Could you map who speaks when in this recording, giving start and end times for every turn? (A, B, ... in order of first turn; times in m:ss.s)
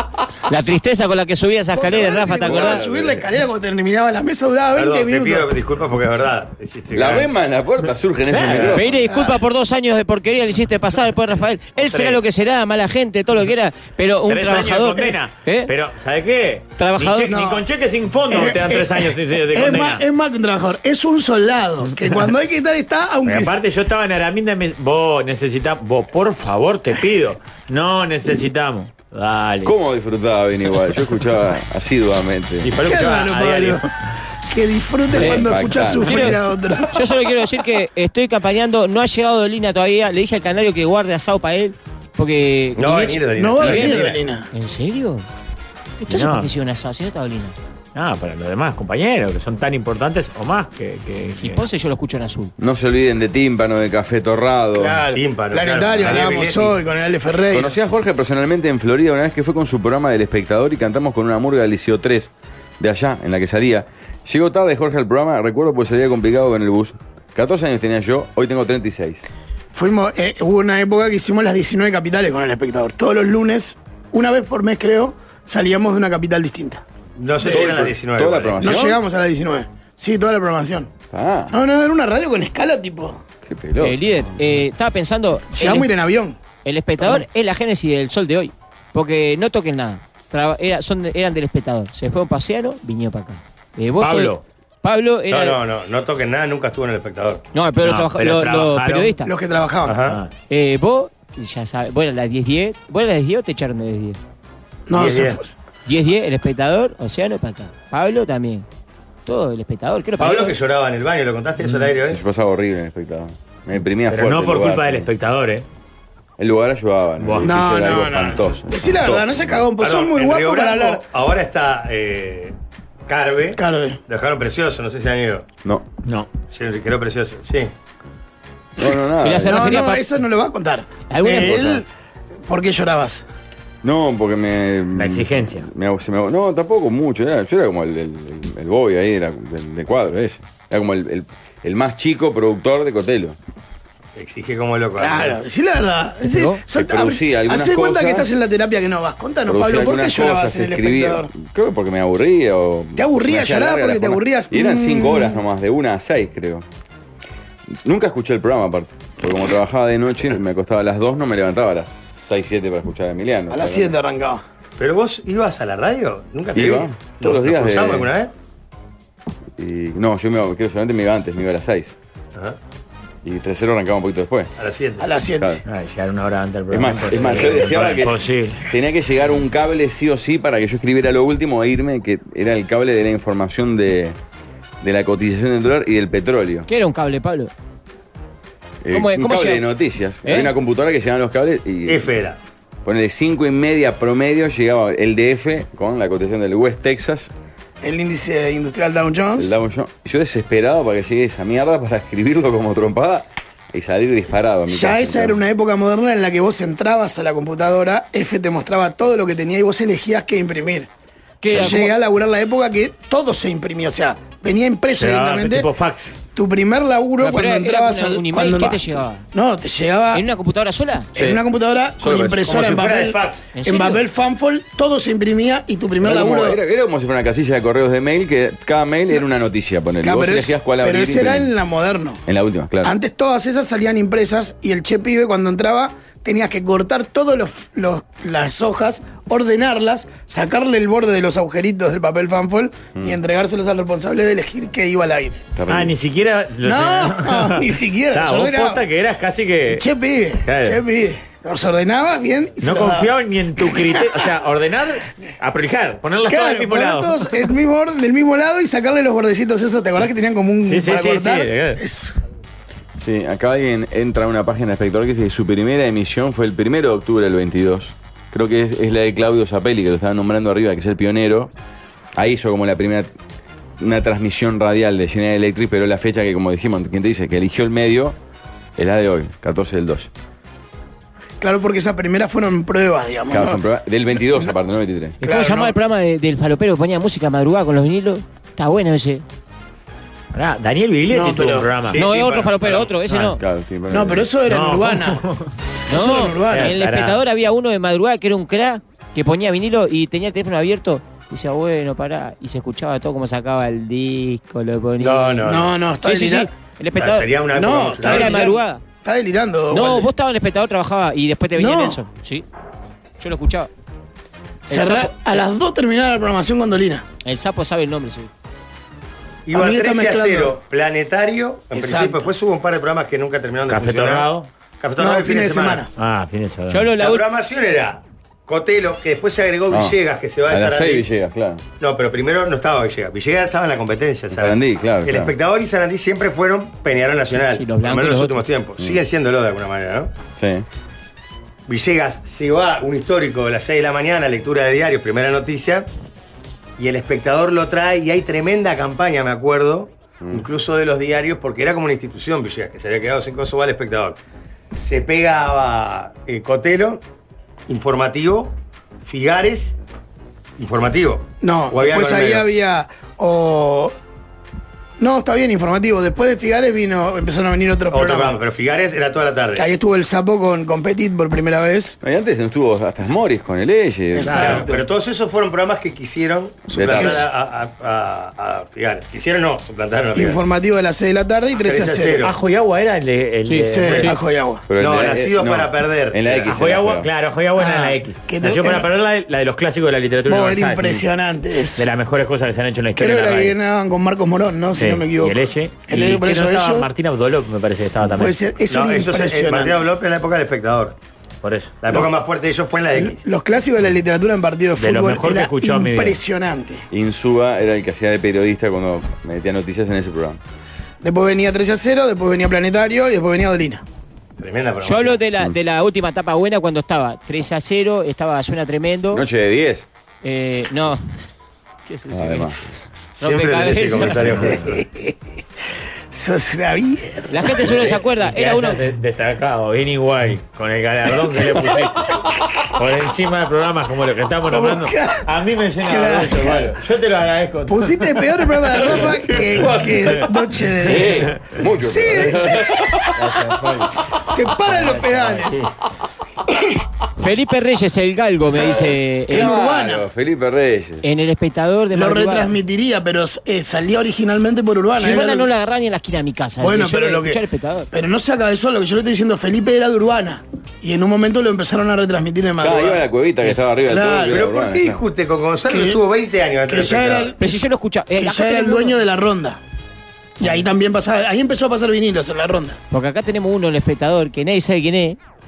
0:00.5-0:02.8 A
0:01.7-0:05.5 B
0:02.4-0:03.3 C
0:04.8-0:07.3 D
0:06.9-0:09.1 C
0:08.3-0:09.0 E
0:08.5-0:15.7 A
0:09.1-0:09.4 B
0:11.8-0:12.2 D
0:14.3-0:20.0 E
0:16.8-0:17.3 A
0:17.2-0:17.7 B
0:18.3-0:23.6 B
0:21.9-0:22.3 E
0:23.3-0:29.8 E
0:29.6-0:32.7 C
0:32.6-0:33.8 E
0:32.8-0:33.9 B
0:34.5-0:37.2 B
0:35.2-0:36.4 A
0:35.2-0:36.4 C
0:36.9-0:45.3 A
0:42.8-0:44.2 D
0:43.4-0:44.5 B
0:46.0-0:47.6 A
0:46.1-0:46.5 E
0:48.0-0:51.7 E
0:51.4-0:52.5 A
0:52.6-0:55.0 C
0:54.8-0:57.7 B
0:55.1-0:56.8 D
0:57.5-1:09.2 C
1:09.7-1:16.8 B
1:17.2-1:18.9 D
1:17.4-1:17.9 B
1:17.4-1:19.0 C
1:18.6-1:20.9 B
1:21.1-1:21.5 C
1:21.5-1:23.2 B
1:23.4-1:24.3 C
1:23.8-1:25.9 A
1:25.5-1:26.4 B
1:26.6-1:35.6 A
1:27.0-1:27.3 B
1:34.0-1:34.4 E
1:35.3-1:37.4 D
1:37.5-1:39.3 A
1:37.8-1:39.2 E
1:39.2-1:40.1 B
1:39.8-1:40.2 D
1:40.1-1:40.3 E
1:40.5-1:44.2 A
1:44.9-1:45.5 B
1:44.9-1:45.4 D
1:45.9-1:48.7 A
1:49.3-1:50.6 A
1:50.2-1:52.2 D
1:52.0-1:55.1 C
1:54.1-1:55.6 E
1:56.4-1:59.7 C
1:57.2-1:57.6 E
1:57.4-2:01.0 B
1:59.8-2:02.6 D
2:03.1-2:05.5 D
2:03.6-2:04.0 B
2:06.0-2:06.3 E
2:06.5-2:07.7 D
2:08.8-2:09.9 C
2:09.2-2:10.0 A
2:09.5-2:11.9 B
2:11.1-2:11.8 A
2:12.5-2:13.2 B
2:13.8-2:23.4 C
2:15.0-2:15.7 E
2:24.2-2:25.4 D
2:25.0-2:31.3 B
2:26.3-2:26.6 A
2:26.7-2:28.3 C
2:29.5-2:36.7 C
2:33.0-2:35.4 B
2:37.7-2:44.0 C
2:43.5-2:44.4 B
2:44.8-2:48.3 D
2:46.5-2:48.1 C
2:49.6-2:52.0 C
2:53.2-2:54.5 C
2:54.6-2:55.1 D
2:55.0-2:55.6 B
2:55.7-2:58.6 E
2:56.7-3:04.2 C
3:04.8-3:06.7 C
3:06.7-3:07.5 A
3:08.8-3:12.1 C
3:08.9-3:09.7 A
3:10.2-3:10.5 A
3:11.9-3:12.4 D
3:12.8-3:17.3 C
3:17.8-3:19.6 B
3:19.4-3:25.4 C
3:24.7-3:30.9 B
3:31.4-3:32.0 A
3:31.5-3:35.7 B
3:34.9-3:36.2 E
3:36.4-3:40.3 B
3:37.2-3:39.2 A
3:40.1-3:41.1 A
3:41.2-3:41.4 C
3:41.2-3:46.6 B
3:42.0-3:42.6 C
3:42.5-3:43.5 D
3:43.6-3:44.0 A
3:46.0-3:51.5 C
3:50.0-3:52.2 B
3:52.3-3:53.0 C
3:52.8-4:05.4 B
4:05.6-4:06.0 C
4:05.7-4:09.9 E
4:06.6-4:08.9 B
4:09.7-4:14.2 B
4:10.4-4:10.8 E
4:12.6-4:17.5 E
4:16.3-4:22.2 B
4:20.6-4:21.8 E
4:23.0-4:31.5 C
4:32.2-4:33.1 C
4:33.8-4:38.2 C
4:38.8-4:40.1 C
4:41.4-4:43.6 B
4:43.3-4:45.2 C
4:44.3-4:44.5 B
4:45.2-4:45.8 B
4:45.2-4:49.2 A
4:50.3-4:52.0 E
4:51.1-4:51.7 B
4:51.9-4:52.9 D
4:52.0-4:53.4 A
4:53.1-4:53.4 E
4:53.4-4:54.3 C
4:53.9-4:55.2 B
4:54.5-4:55.5 E
4:55.9-5:05.5 A
4:55.9-4:56.8 B
4:56.4-4:57.2 E
5:05.0-5:05.7 D
5:05.4-5:06.5 B
5:06.0-5:07.3 A
5:07.0-5:08.6 D
5:07.5-5:10.1 B
5:08.0-5:08.8 A
5:09.7-5:12.5 A
5:11.6-5:12.0 B
5:13.2-5:13.7 A
5:14.7-5:17.0 B
5:14.7-5:15.4 A
5:17.2-5:18.3 A
5:19.5-5:25.8 D
5:19.5-5:20.6 B
5:21.7-5:22.3 B
5:23.7-5:24.5 E
5:25.0-5:25.9 B
5:26.0-5:26.9 E
5:26.7-5:27.2 A
5:27.0-5:31.0 D
5:29.7-5:30.0 C
5:30.5-5:31.6 C
5:31.8-5:40.1 D
5:34.3-5:35.3 C
5:37.6-5:38.4 A
5:40.4-5:40.7 C
5:41.7-5:45.9 D
5:46.8-5:54.2 D
5:54.7-5:57.0 D
5:57.7-5:59.8 D
6:00.6-6:02.5 D
6:01.4-6:03.9 B
6:05.0-6:08.4 B
6:07.9-6:09.7 D
6:09.6-6:12.0 B
6:12.0-6:14.7 C
6:14.1-6:14.9 B
6:14.2-6:14.6 E
6:14.3-6:20.4 D
6:16.7-6:17.2 C
6:16.7-6:17.3 B
6:20.1-6:22.3 B
6:21.6-6:22.3 D
6:22.2-6:24.2 E
6:23.6-6:24.6 B
6:24.7-6:27.1 C
6:24.8-6:26.6 D
6:26.5-6:31.0 E
6:27.6-6:28.9 B
6:30.3-6:31.9 B
6:31.8-6:33.6 E
6:33.0-6:36.9 B
6:34.8-6:38.4 E
6:38.0-6:39.8 B
6:38.7-6:41.0 D
6:41.4-6:41.8 E
6:41.8-6:43.2 D
6:43.0-6:46.8 B
6:44.8-6:46.2 E
6:46.9-6:50.4 C
6:51.0-6:53.8 B
6:54.4-6:55.2 D
6:54.8-6:59.2 A
6:59.1-6:59.9 C
7:00.2-7:01.0 A
7:01.9-7:02.5 A
7:02.1-7:02.7 C
7:03.2-7:04.5 A
7:03.2-7:04.8 D
7:04.6-7:05.1 B
7:06.1-7:07.9 B
7:07.3-7:08.8 A
7:07.7-7:20.3 E
7:11.3-7:12.2 B
7:14.5-7:15.2 B
7:15.8-7:16.8 B
7:17.7-7:22.8 B
7:20.8-7:21.7 E
7:20.8-7:23.2 C
7:23.2-7:24.1 E
7:24.1-7:25.7 B
7:24.6-7:25.7 E
7:27.2-7:29.5 A
7:29.3-7:31.0 C
7:29.3-7:30.1 B
7:31.0-7:32.5 A
7:31.9-7:35.5 B
7:35.0-7:37.9 A
7:36.6-7:43.0 B
7:42.6-7:45.0 C
7:43.8-7:44.5 B
7:44.3-7:47.3 D
7:45.7-7:46.0 B
7:46.6-7:49.6 B
7:47.4-7:49.0 A
7:50.4-7:52.8 B
7:52.9-7:55.2 A